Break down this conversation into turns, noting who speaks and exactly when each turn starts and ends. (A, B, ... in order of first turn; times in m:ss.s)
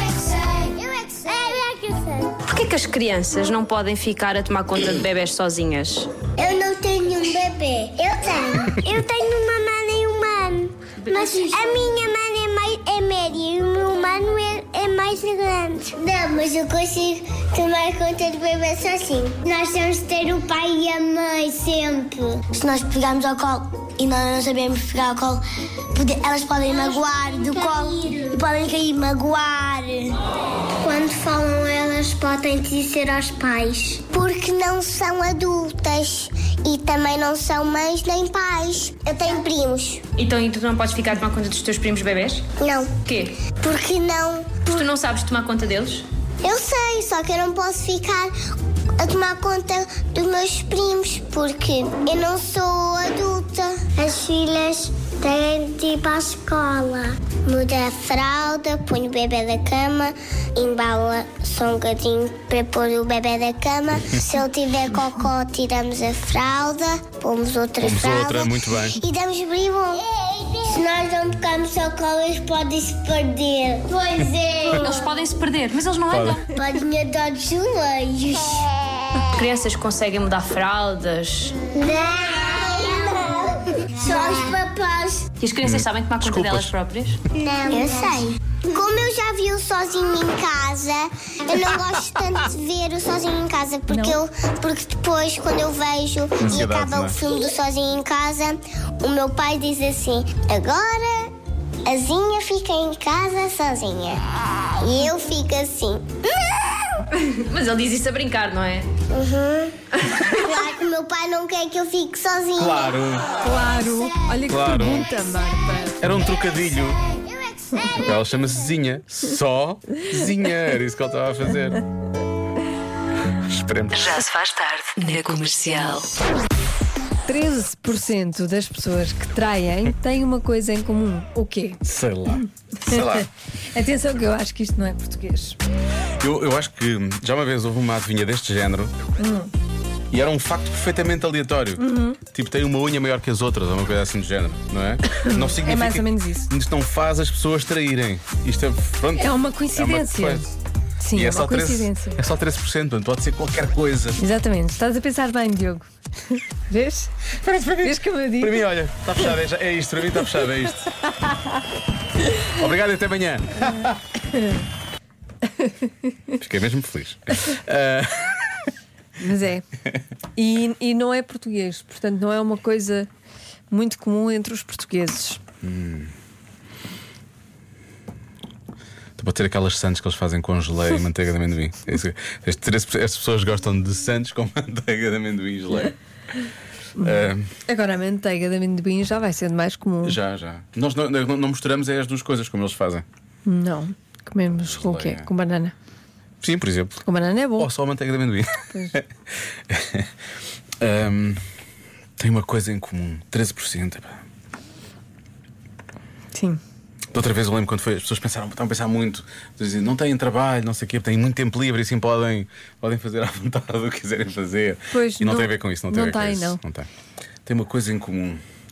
0:00.5-0:02.0 A
0:02.4-0:06.1 B
0:06.4-0:25.4 A
0:11.1-0:11.7 B
0:25.9-0:30.1 A
0:30.8-0:40.0 A
0:40.2-0:42.4 B
0:42.6-0:43.0 A
0:43.0-0:43.4 B
0:43.6-0:44.9 A
0:44.7-0:46.0 B
0:46.4-0:48.3 A
0:49.0-1:15.0 A
1:07.8-1:09.0 C
1:14.6-1:16.5 B
1:16.1-1:16.4 C
1:16.5-1:19.3 A
1:19.4-1:21.6 B
1:21.7-1:23.4 A
1:24.0-1:25.2 A
1:25.4-1:27.2 B
1:25.6-1:26.7 C
1:27.4-1:41.3 A
1:33.9-1:34.2 D
1:36.4-1:37.2 C
1:41.8-1:44.2 A
1:44.8-1:46.1 A
1:47.3-1:48.9 B
1:49.1-1:49.8 A
1:50.3-1:53.0 A
1:52.6-1:53.4 C
1:53.4-1:56.0 D
1:54.5-1:55.1 C
1:56.0-1:57.0 C
1:57.4-1:58.2 A
1:58.0-2:01.8 C
2:03.3-2:04.1 C
2:03.9-2:06.1 E
2:07.2-2:11.8 D
2:11.8-2:13.3 C
2:12.3-2:13.2 D
2:13.7-2:15.6 D
2:16.2-2:18.9 C
2:19.2-2:19.5 D
2:20.1-2:30.4 C
2:21.8-2:22.2 D
2:25.1-2:26.5 D
2:29.2-2:32.2 D
2:31.1-2:34.2 C
2:34.2-2:37.3 D
2:37.3-2:40.9 C
2:37.8-2:38.6 D
2:41.2-2:41.5 D
2:42.5-2:44.0 C
2:44.2-2:44.6 D
2:45.4-2:46.2 D
2:46.4-2:48.7 C
2:49.2-2:49.6 D
2:50.4-2:53.1 D
2:53.7-2:55.4 D
2:55.6-2:56.1 C
2:59.2-3:05.9 C
3:07.0-3:10.2 D
3:07.0-3:07.5 C
3:10.0-3:13.0 C
3:13.4-3:15.7 D
3:14.6-3:15.3 C
3:16.4-3:17.0 C
3:17.0-3:17.7 D
3:17.6-3:19.0 C
3:19.7-3:20.1 C
3:20.8-3:21.4 C
3:22.2-3:24.2 C
3:26.3-3:26.6 D
3:27.1-3:36.9 C
3:34.9-3:36.6 D
3:37.4-3:38.4 C